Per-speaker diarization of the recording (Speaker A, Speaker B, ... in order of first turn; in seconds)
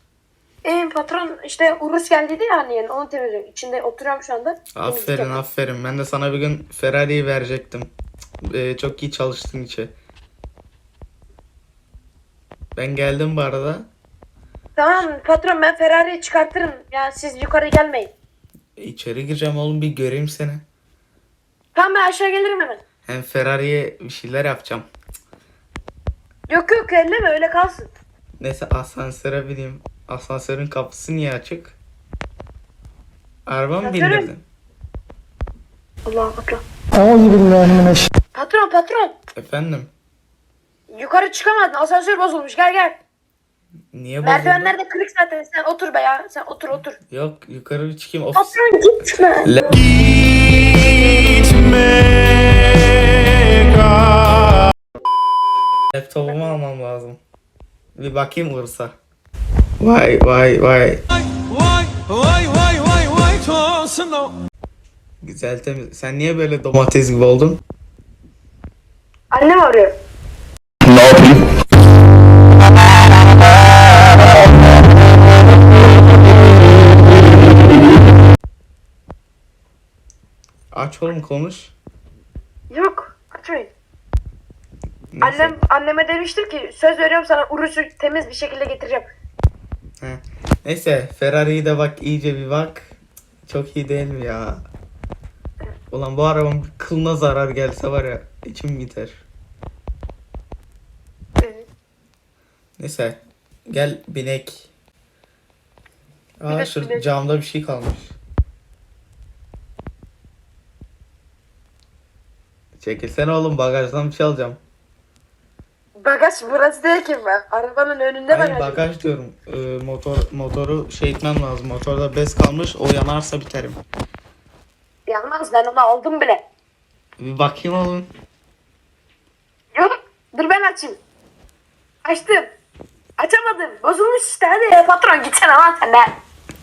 Speaker A: 0.6-5.4, 14.8-18.1, 21.7-22.8, 26.5-27.9, 33.8-34.3, 36.0-36.6, 38.3-39.1, 40.9-43.0, 44.2-47.0, 48.3-49.6, 69.3-70.0, 82.7-83.7, 85.2-89.0, 101.4-101.7, 106.5-107.1, 116.0-118.8, 125.1-126.4, 129.7-131.0, 132.0-132.5, 133.2-136.1
Speaker B: 4.7-7.9, 8.4-9.9, 12.8-13.9, 18.8-20.6, 23.1-24.9, 28.4-31.8, 33.5-34.4, 39.3-39.9, 43.9-44.7, 47.1-48.5, 49.4-52.0, 53.8-54.1, 55.9-57.2, 58.0-59.0, 59.8-61.0, 65.2-67.6, 80.7-81.7, 85.1-85.5, 90.0-94.6, 95.9-99.2, 102.8-104.7, 106.4-108.2, 112.8-114.6, 118.3-123.8, 127.2-128.1
Speaker C: 61.5-64.3